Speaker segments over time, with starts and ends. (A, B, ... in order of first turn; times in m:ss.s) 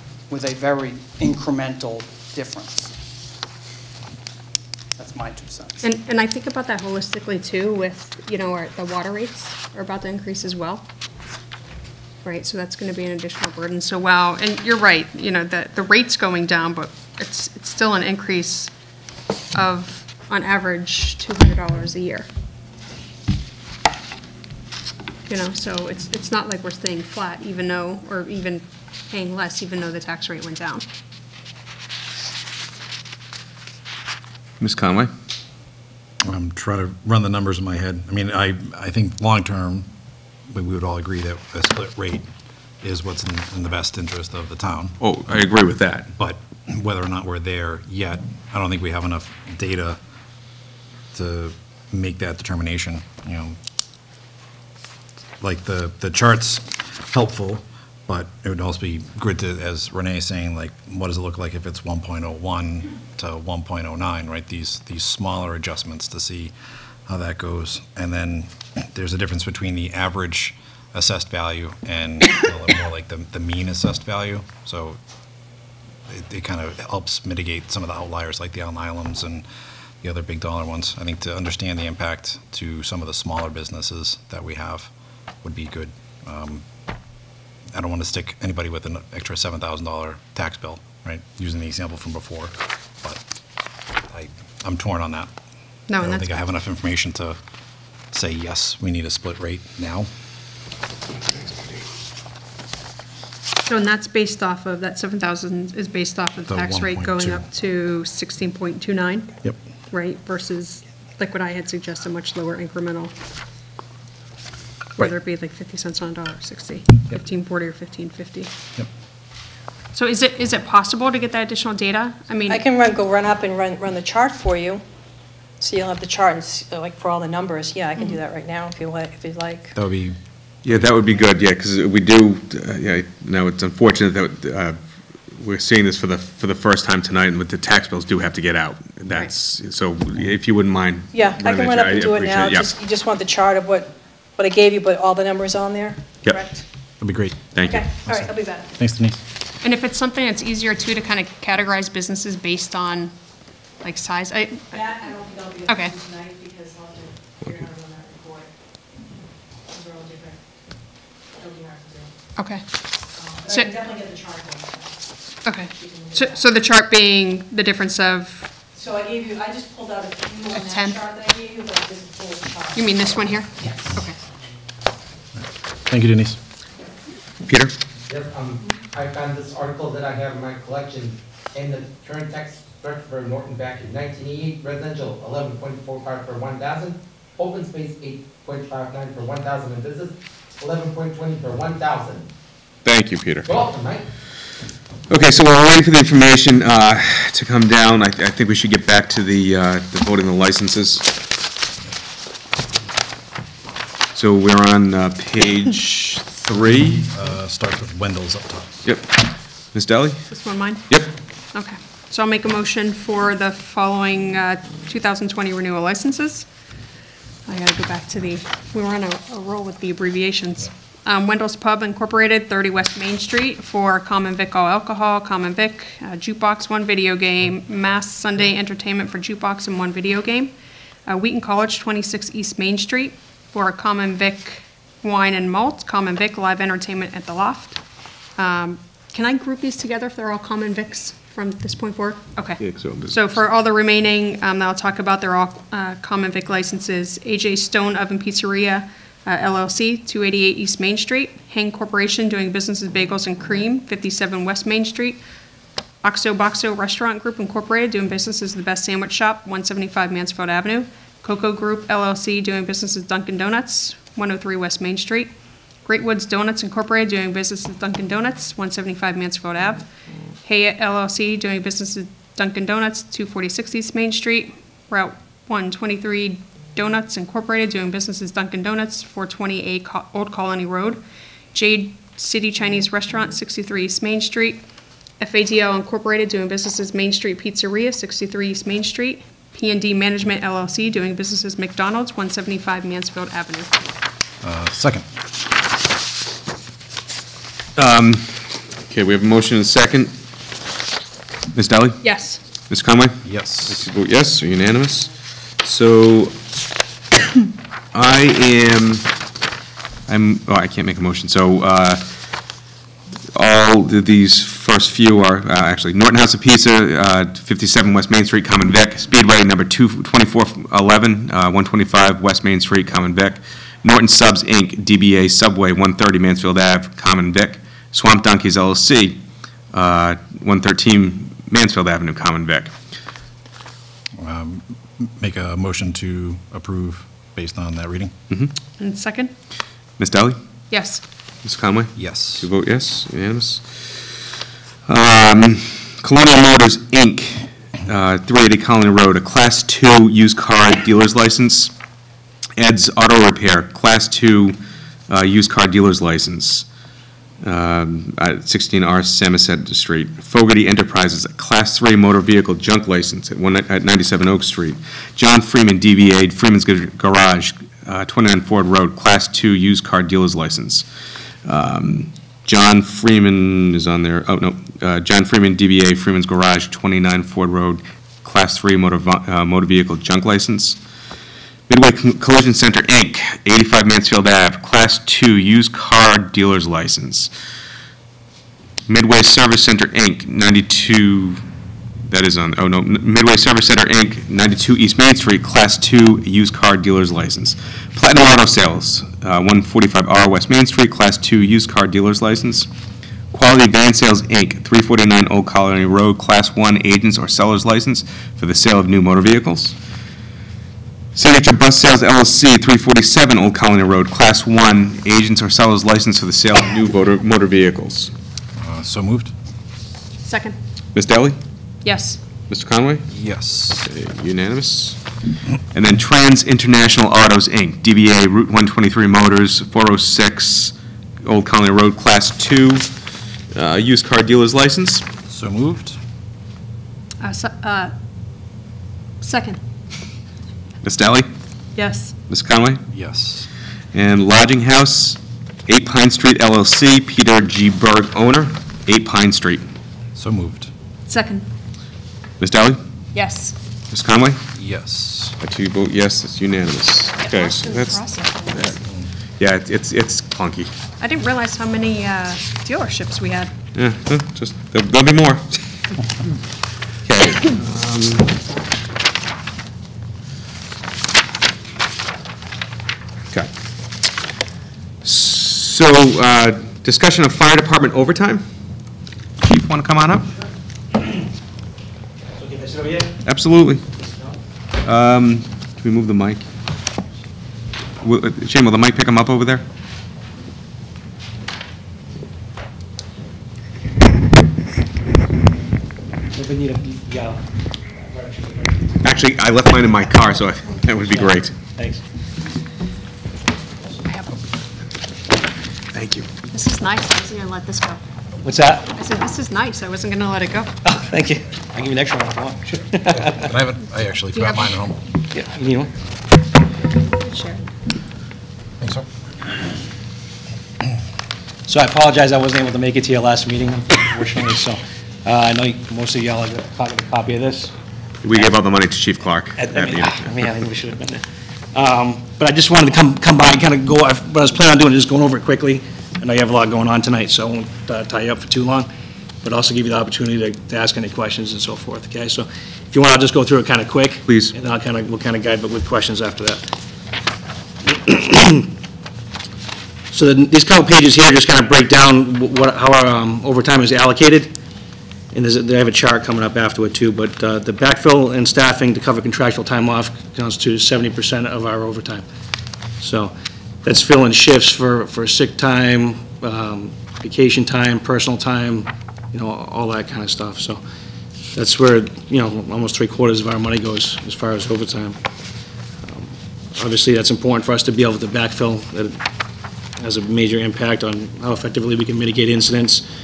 0:00.3-0:03.0 A
0:05.0-0:05.8 A
0:05.8-0:10.9 B
0:12.2-0:18.7 B
0:19.5-0:22.3 B
0:25.3-0:30.8 B
0:34.6-0:35.1 C
0:36.2-0:39.9 D
0:40.5-0:42.3 D
0:42.8-0:45.0 D
0:45.0-0:46.1 C
0:46.2-0:50.0 D
0:51.1-0:53.6 D
0:55.4-1:06.5 D
1:07.1-1:15.0 D
1:16.1-1:19.4 D
1:20.0-1:24.9 D
1:25.4-1:26.6 D
1:27.7-1:33.2 D
1:34.1-1:35.3 D
1:35.9-1:36.3 B
1:36.0-1:37.4 D
1:38.1-1:40.1 D
1:43.7-1:49.4 B
1:46.5-1:47.5 D
1:49.9-1:53.1 B
1:55.0-1:58.5 B
2:00.0-2:02.6 B
2:02.5-2:04.8 E
2:05.6-2:09.8 E
2:09.8-2:10.9 D
2:10.6-2:14.8 C
2:15.3-2:22.7 C
2:21.1-2:26.6 E
2:27.0-2:27.4 D
2:27.5-2:27.8 C
2:27.7-2:28.7 E
2:28.0-2:29.2 D
2:29.6-2:33.1 B
2:33.8-2:34.8 B
2:34.7-2:38.5 E
2:35.7-2:35.9 B
2:39.7-2:40.4 E
2:41.4-2:42.1 E
2:42.4-2:42.6 B
2:43.4-2:44.9 E
2:43.5-2:43.7 B
2:45.4-2:48.5 B
2:45.9-2:46.3 E
2:48.8-2:52.8 E
2:50.5-2:51.0 B
2:52.8-2:54.2 B
2:55.4-2:56.4 D
2:57.4-2:57.7 C
2:58.1-3:12.3 F
3:12.8-3:13.6 C
3:13.4-3:14.0 F
3:15.1-3:21.1 C
3:24.1-3:27.0 C
3:26.5-3:28.8 D
3:28.8-3:29.1 C
3:29.7-3:30.2 C
3:30.3-3:30.9 B
3:31.5-3:36.5 B
3:37.5-3:50.5 B
3:51.1-3:57.8 B
3:58.4-4:15.2 B
4:02.6-4:03.4 C
4:16.0-4:25.3 B
4:25.8-4:29.9 B
4:30.4-4:41.0 B
4:41.5-4:44.6 B
4:45.2-4:53.7 B
4:54.4-4:55.1 D
4:57.8-5:00.2 C
5:01.5-5:02.0 C
5:02.0-5:02.4 B
5:02.7-5:05.1 C
5:03.2-5:03.8 D
5:05.6-5:06.4 C
5:07.9-5:09.1 C
5:10.1-5:12.1 C
5:13.3-5:29.2 C
5:29.7-5:32.8 C
5:34.2-5:38.1 D
5:38.8-5:39.3 B
5:40.0-5:40.4 C
5:40.7-5:41.0 B
5:41.4-5:44.2 C
5:42.0-5:42.5 D
5:44.9-5:51.7 C
5:52.6-5:54.6 C
5:55.1-5:56.7 C
5:57.4-6:10.9 C
6:11.4-6:20.8 C
6:21.7-6:27.3 C
6:28.9-6:31.4 C
6:32.1-6:42.7 C
6:43.3-6:49.8 C
6:51.2-6:58.1 C
6:58.6-6:59.3 D
7:00.2-7:00.6 B
7:00.9-7:01.4 C
7:01.8-7:02.2 B
7:02.5-7:03.1 C
7:03.1-7:03.9 D
7:03.8-7:05.0 C
7:05.7-7:12.9 C
7:13.5-7:15.0 C
7:15.3-7:16.0 D
7:17.2-7:17.9 B
7:19.2-7:19.6 B
7:20.8-7:21.3 C
7:21.8-7:22.1 B
7:22.3-7:22.8 C
7:22.9-7:23.5 D
7:23.9-7:29.7 C
7:30.2-7:30.7 D
7:31.1-7:31.5 B
7:32.4-7:32.8 C
7:33.1-7:33.6 B
7:33.9-7:34.4 C
7:34.6-7:35.4 D
7:35.4-7:38.8 C
7:37.2-7:38.7 B
7:39.4-7:40.7 C
7:41.0-7:43.5 B
7:43.7-7:45.6 C
7:47.0-7:48.4 C
7:55.0-7:58.5 C
7:59.4-8:00.3 C
8:02.4-8:03.2 G
8:03.2-8:03.9 C
8:04.8-8:06.5 C
8:08.0-8:09.6 C
8:16.3-8:17.4 G
8:18.0-8:19.0 G
8:19.0-8:21.6 C
8:21.1-8:22.0 G
8:25.9-8:26.3 C
8:26.5-8:28.0 B
8:28.4-8:28.9 G
8:29.0-8:30.7 B
8:30.8-8:33.6 G
8:33.1-8:35.1 D
8:34.4-8:34.7 B
8:35.3-8:35.9 G
8:36.9-8:37.6 B
8:38.8-8:39.1 D
8:41.7-8:47.7 G
8:48.2-8:50.4 C
8:49.6-8:58.9 G
8:59.4-9:06.7 G
9:04.3-9:04.5 C
9:07.8-9:08.8 G
9:10.1-9:14.6 G
9:15.3-9:22.2 G
9:23.0-9:30.8 G
9:31.5-9:35.2 G
9:36.0-9:39.2 G
9:40.0-9:43.1 G